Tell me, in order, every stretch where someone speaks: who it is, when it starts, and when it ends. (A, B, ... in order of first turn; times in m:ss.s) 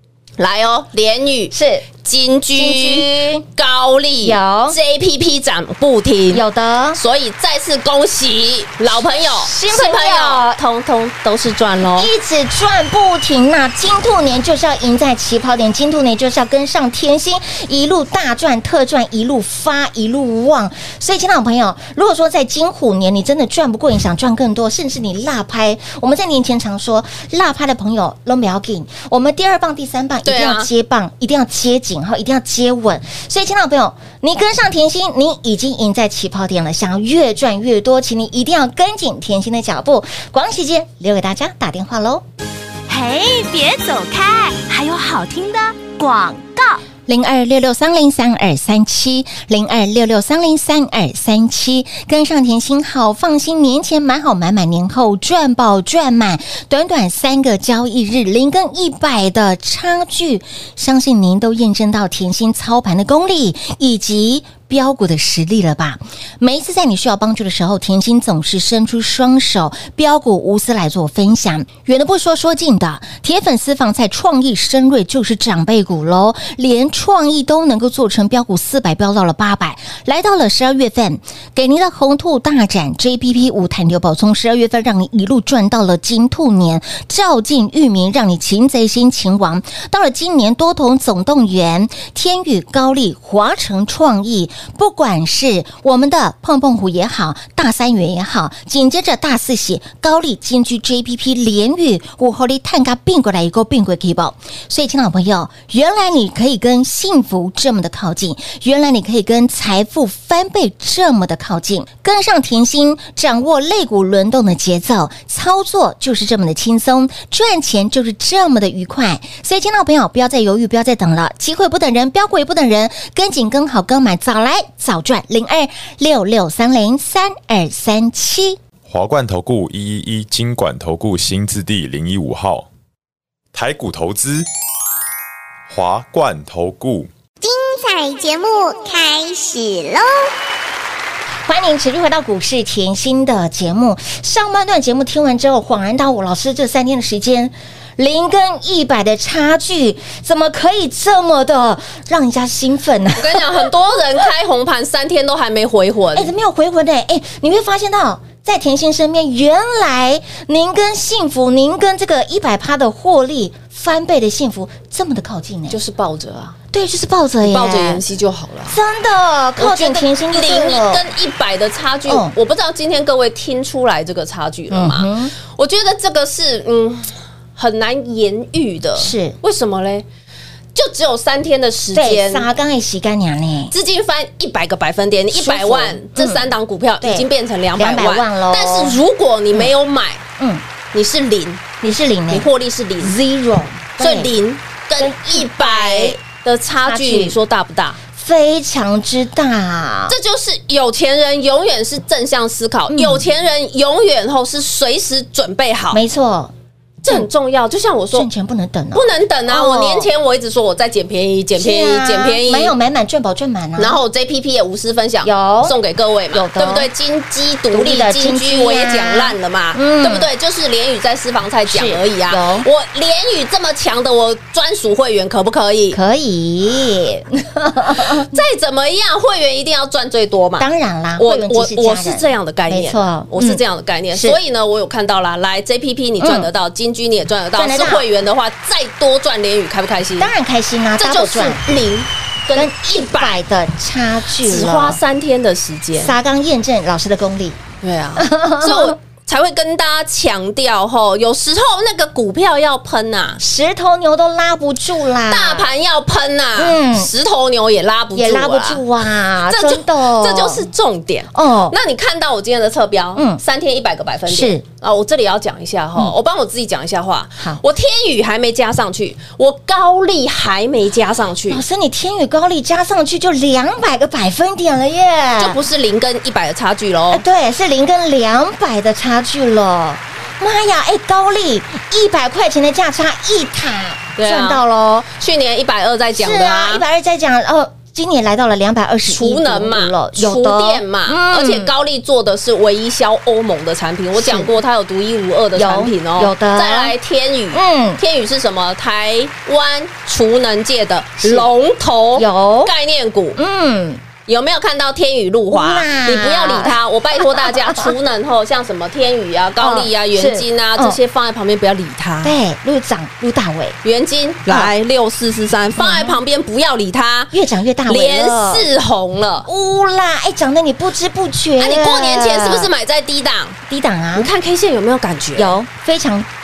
0:00.4-0:06.4 A
0:01.5-0:01.9 B
0:02.6-0:03.4 B
0:04.2-0:04.8 B
0:06.3-0:07.0 B
0:07.0-0:12.1 A
0:09.3-0:10.6 B
0:12.0-0:42.2 B
0:30.2-0:30.7 A
0:42.9-0:46.8 C
0:47.1-2:08.6 B
2:08.8-2:12.7 D
2:13.5-2:14.5 D
2:15.7-2:17.1 D
2:17.4-2:20.3 E
2:21.5-2:33.7 B
2:33.2-2:36.3 A
2:36.2-2:45.8 B
2:45.7-2:46.6 A
2:46.7-2:48.0 B
2:47.4-2:48.8 A
2:48.7-2:51.0 B
2:49.6-3:00.1 A
2:52.1-2:52.4 B
2:54.7-2:55.3 B
2:59.0-2:59.4 B
3:00.8-3:02.5 A
3:01.9-3:03.7 B
3:03.7-3:10.2 A
3:05.3-3:06.5 B
3:07.0-3:09.0 B
3:10.4-3:10.6 B
3:10.9-3:11.6 A
3:11.8-3:12.5 B
3:12.3-3:13.2 A
3:13.0-3:14.3 B
3:14.0-3:18.0 A
3:15.0-3:16.2 B
3:16.8-3:17.4 B
3:18.1-3:20.2 B
3:20.1-3:26.0 A
3:22.9-3:23.3 B
3:25.9-3:26.5 B
3:27.0-3:28.3 A
3:28.1-3:30.1 B
3:28.9-3:32.7 A
3:31.6-3:34.0 B
3:33.8-3:46.0 A
3:35.2-3:35.8 B
3:36.3-3:36.9 B
3:37.7-3:40.3 B
3:41.7-3:42.7 B
3:45.9-3:48.3 B
3:48.1-3:50.7 A
3:50.6-3:54.4 B
3:51.2-4:00.3 A
3:56.2-3:56.5 B
3:57.6-3:58.1 B
4:00.2-4:01.8 B
4:01.0-4:03.4 A
4:02.6-4:05.0 B
4:04.4-4:06.2 A
4:06.0-4:07.6 B
4:07.8-4:13.4 A
4:08.2-4:09.0 B
4:13.4-4:15.7 B
4:15.3-4:18.8 A
4:16.6-4:17.1 B
4:18.1-4:20.7 B
4:19.5-4:31.6 A
4:21.3-4:21.8 B
4:24.3-4:24.6 B
4:31.5-4:35.6 B
4:35.4-4:37.2 A
4:37.1-4:45.1 B
4:44.2-4:44.6 A
4:45.1-4:46.8 A
4:46.1-4:51.7 B
4:49.1-5:03.4 A
4:54.2-4:54.5 B
4:55.6-4:57.0 B
4:57.5-4:58.0 B
5:01.2-5:01.5 B
5:02.2-5:02.7 B
5:03.4-5:04.0 B
5:04.3-5:12.4 A
5:05.5-5:07.9 B
5:09.6-5:11.0 B
5:12.2-5:13.8 B
5:13.8-5:17.3 A
5:15.8-5:16.2 B
5:17.3-5:18.7 B
5:17.9-5:19.5 A
5:19.5-5:22.7 B
5:21.6-5:23.6 A
5:23.7-5:24.3 B
5:24.2-5:25.6 A
5:25.4-5:26.3 B